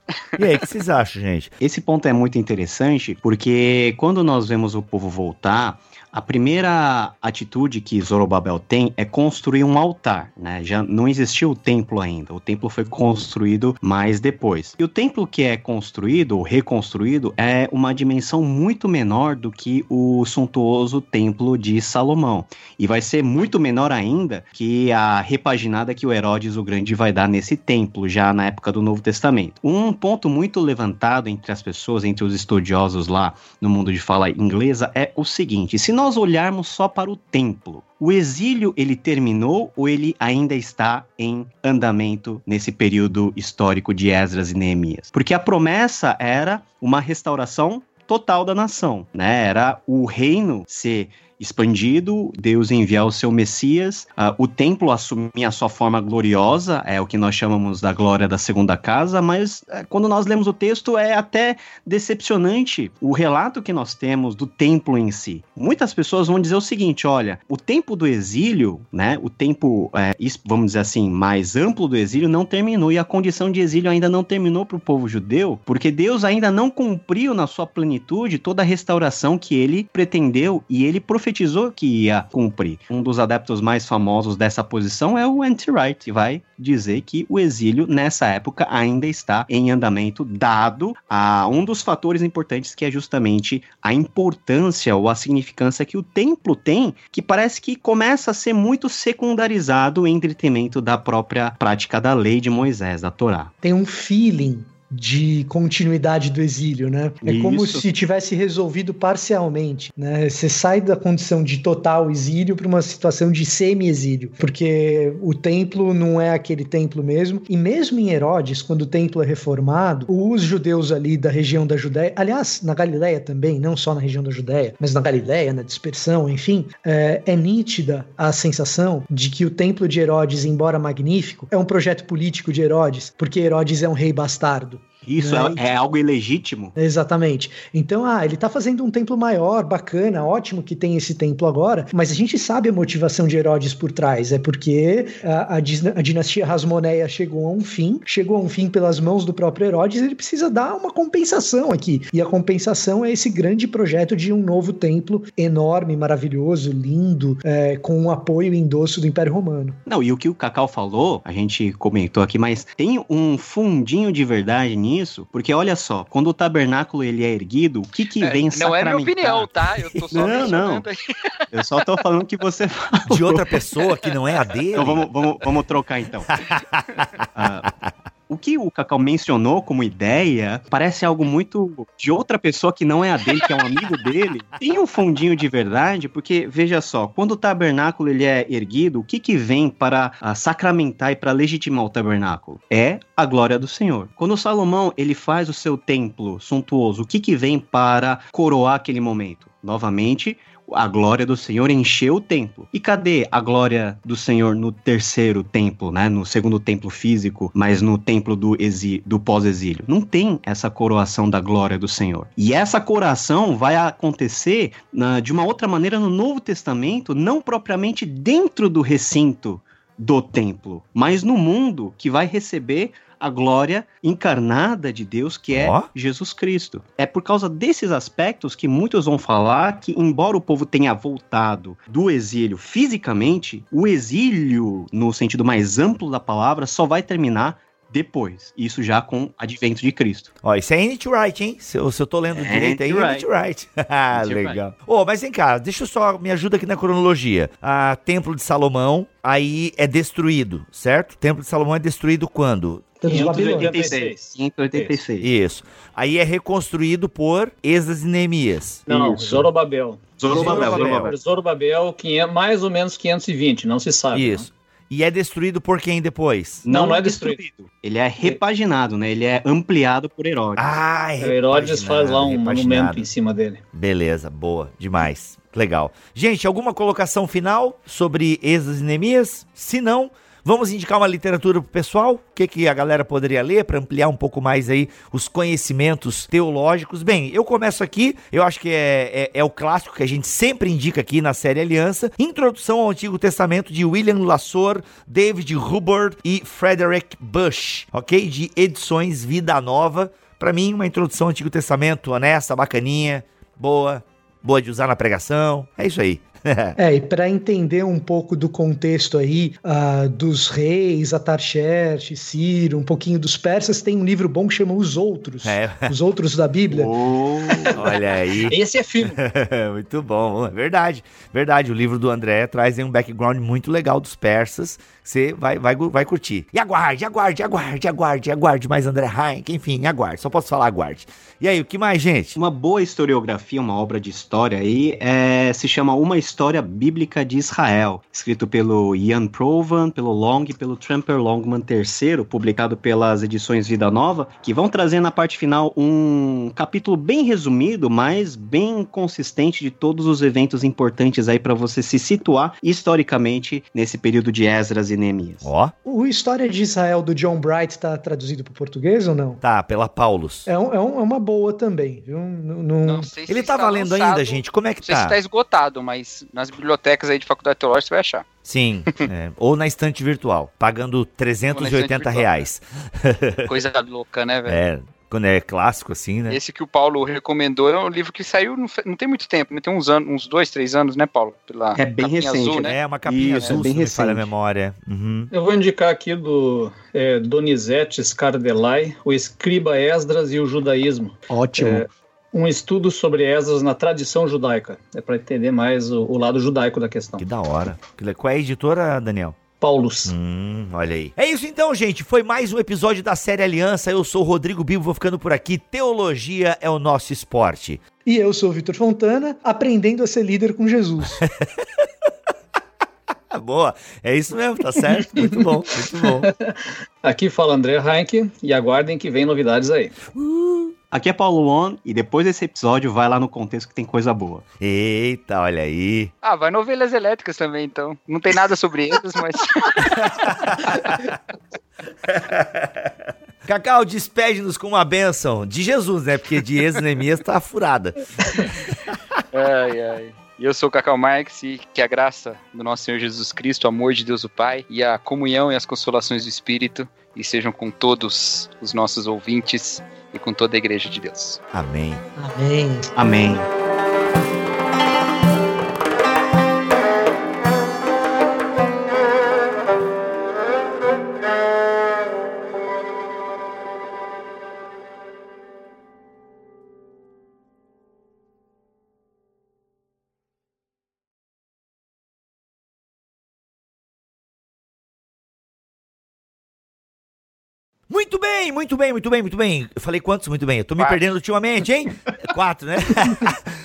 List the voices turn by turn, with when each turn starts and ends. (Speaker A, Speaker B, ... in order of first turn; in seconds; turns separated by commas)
Speaker A: 0.4-1.5, Speaker B: 1.6-103.5, Speaker C: 103.6-135.7, Speaker B: 107.2-107.8, Speaker B: 135.1-136.7, Speaker C: 136.8-159.8, Speaker B: 159.9-169.5, Speaker D: 168.2-171.5, Speaker A: 169.9-170.4, Speaker B: 170.1-170.9, Speaker B: 171.5-173.5, Speaker A: 173.1-175.1, Speaker B: 174.8-176.3, Speaker A: 176.4-177.7, Speaker B: 177.3-177.7, Speaker B: 178.3-240.3, Speaker A: 225.5-225.9, Speaker A: 240.4-253.0, Speaker B: 242.4-243.3, Speaker B: 244.1-244.6, Speaker C: 253.0-253.9, Speaker E: 253.1-255.0, Speaker B: 253.1-255.3, Speaker A: 255.2-258.9, Speaker E: 258.9-264.5, Speaker B: 260.2-261.1, Speaker A: 260.3-261.1, Speaker A: 264.1-266.6, Speaker B: 266.6-270.8, Speaker E: 266.7-267.4, Speaker A: 270.6-273.1, Speaker E: 271.2-273.6, Speaker A: 273.7-306.8, Speaker C: 306.8-316.9, Speaker A: 315.4-315.9, Speaker B: 316.7-317.8, Speaker E: 317.5-317.8, Speaker A: 317.7-332.4, Speaker E: 318.5-319.2, Speaker B: 332.4-355.5, Speaker A: 355.4-355.7, Speaker C: 355.9-359.4, Speaker A: 359.4-360.5, Speaker C: 360.5-363.1, Speaker D: 362.8-368.3, Speaker A: 363.3-365.2, Speaker A: 368.4-373.5, Speaker D: 371.5-372.4, Speaker D: 373.5-374.6, Speaker A: 374.5-376.4, Speaker D: 376.3-382.8, Speaker B: 381.7-384.3, Speaker A: 382.6-385.3, Speaker E: 385.3-397.3, Speaker C: 391.3-391.8, Speaker A: 397.2-399.4, Speaker E: 399.6-400.1, Speaker A: 400.1-407.8, Speaker C: 408.1-411.2, Speaker A: 411.2-411.6, Speaker A: 413.3-416.3, Speaker E: 416.0-420.0, Speaker A: 420.1-420.7, Speaker B: 420.9-424.4, Speaker A: 424.6-426.1, Speaker D: 426.2-431.0, Speaker A: 429.9-430.8, Speaker A: 432.1-432.9, Speaker A: 433.4-438.4, Speaker D: 439.3-451.4, Speaker A: 451.5-452.0, Speaker C: 452.2-452.9, Speaker B: 453.0-453.5, Speaker A: 477.9-483.4